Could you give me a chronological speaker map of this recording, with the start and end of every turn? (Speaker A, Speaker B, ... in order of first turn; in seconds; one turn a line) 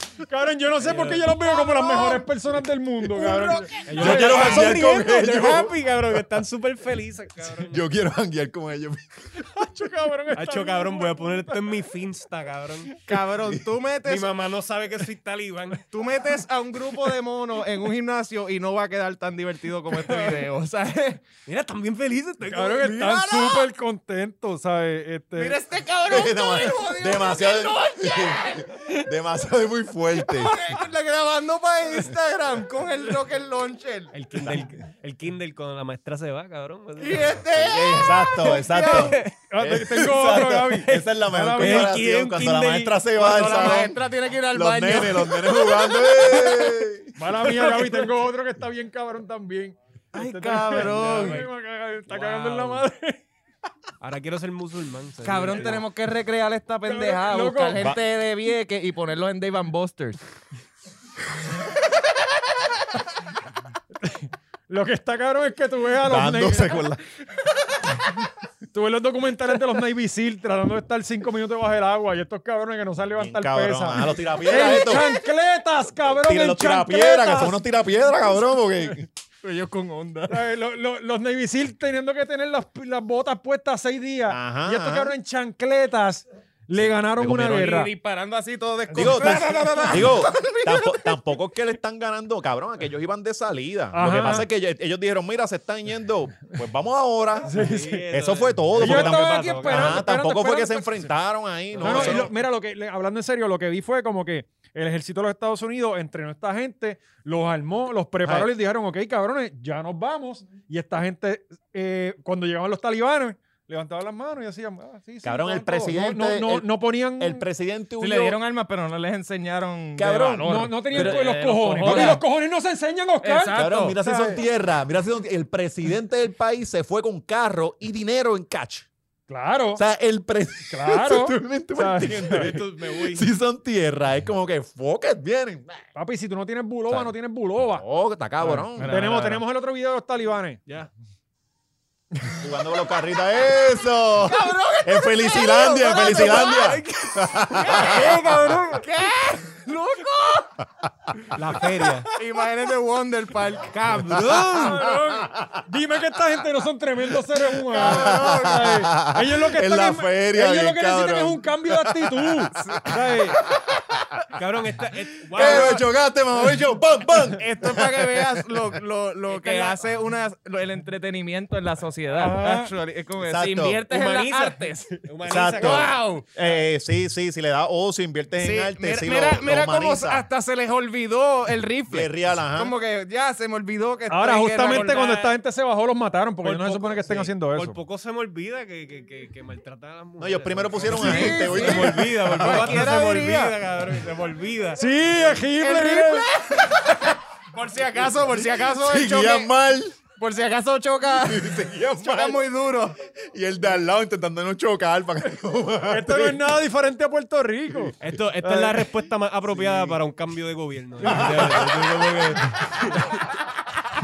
Speaker A: 0.2-4.8
Speaker B: 0.8-1.3
Speaker C: 1.6-2.2
Speaker C: 3.1-4.7
Speaker B: 3.9-7.8
Speaker D: 4.0-6.2
Speaker D: 7.6-9.3
Speaker A: 9.4-11.8
Speaker B: 10.3-13.0
Speaker C: 13.1-14.3
Speaker B: 14.1-15.9
Speaker C: 15.9-21.2
Speaker B: 21.5-23.5
Speaker A: 22.5-25.6
Speaker C: 25.4-28.9
Speaker D: 26.1-30.6
Speaker C: 30.2-34.1
Speaker B: 34.1-37.5
Speaker C: 37.0-39.1
Speaker D: 37.6-44.0
Speaker B: 38.3-39.3
Speaker A: 39.5-42.0
Speaker B: 40.0-43.7
Speaker C: 43.2-46.7
Speaker D: 44.5-47.2
Speaker A: 47.2-53.2
Speaker B: 47.8-48.0
Speaker C: 50.1-51.5
Speaker B: 50.7-51.5
Speaker B: 52.1-52.8
Speaker B: 54.0-55.9
Speaker C: 55.2-60.2
Speaker A: 56.9-57.8
Speaker A: 64.0-66.8
Speaker D: 66.0-67.0
Speaker A: 68.7-77.6
Speaker D: 73.2-75.1
Speaker D: 76.0-79.1
Speaker C: 79.4-80.5
Speaker A: 80.3-87.9
Speaker D: 84.3-85.1
Speaker D: 86.8-87.7
Speaker C: 87.5-91.0
Speaker A: 88.9-89.8
Speaker D: 89.0-102.3
Speaker A: 93.9-94.5
Speaker A: 97.5-98.0
Speaker B: 97.5-100.0
Speaker A: 98.8-100.9
Speaker B: 101.7-102.3
Speaker A: 101.8-117.5
Speaker D: 108.2-108.5
Speaker D: 115.2-118.4
Speaker C: 118.0-122.2
Speaker D: 120.0-121.2
Speaker A: 120.4-124.4
Speaker D: 121.8-122.2
Speaker C: 123.2-124.0
Speaker D: 123.5-128.9
Speaker A: 129.3-129.8
Speaker D: 129.8-135.8
Speaker A: 130.7-132.5
Speaker B: 132.0-133.3
Speaker A: 135.9-137.8
Speaker D: 136.9-139.1
Speaker C: 138.7-139.4
Speaker A: 138.8-140.6
Speaker D: 142.4-148.2
Speaker C: 144.2-146.8
Speaker B: 145.8-148.9
Speaker C: 147.6-148.2
Speaker C: 148.7-150.6
Speaker B: 151.3-152.1
Speaker C: 152.1-154.0
Speaker B: 153.7-154.9
Speaker A: 154.5-163.4
Speaker D: 154.8-155.6
Speaker D: 157.7-164.2
Speaker C: 157.7-158.7
Speaker C: 162.6-162.8
Speaker B: 164.3-165.8
Speaker D: 165.3-168.7
Speaker C: 167.2-176.3
Speaker B: 169.3-169.8
Speaker A: 172.2-172.7
Speaker D: 173.2-173.8
Speaker B: 173.9-176.0
Speaker D: 175.3-180.3
Speaker C: 178.4-185.2
Speaker D: 181.9-182.7
Speaker A: 184.1-187.8
Speaker B: 184.6-185.3
Speaker B: 186.4-195.0
Speaker D: 190.2-192.8
Speaker C: 190.9-193.6
Speaker A: 194.8-196.3
Speaker C: 195.6-199.5
Speaker D: 198.6-200.0
Speaker C: 200.2-203.0
Speaker D: 201.2-202.4
Speaker D: 203.3-206.5
Speaker A: 205.8-208.8
Speaker B: 208.0-213.2
Speaker D: 209.5-210.0
Speaker D: 211.0-212.4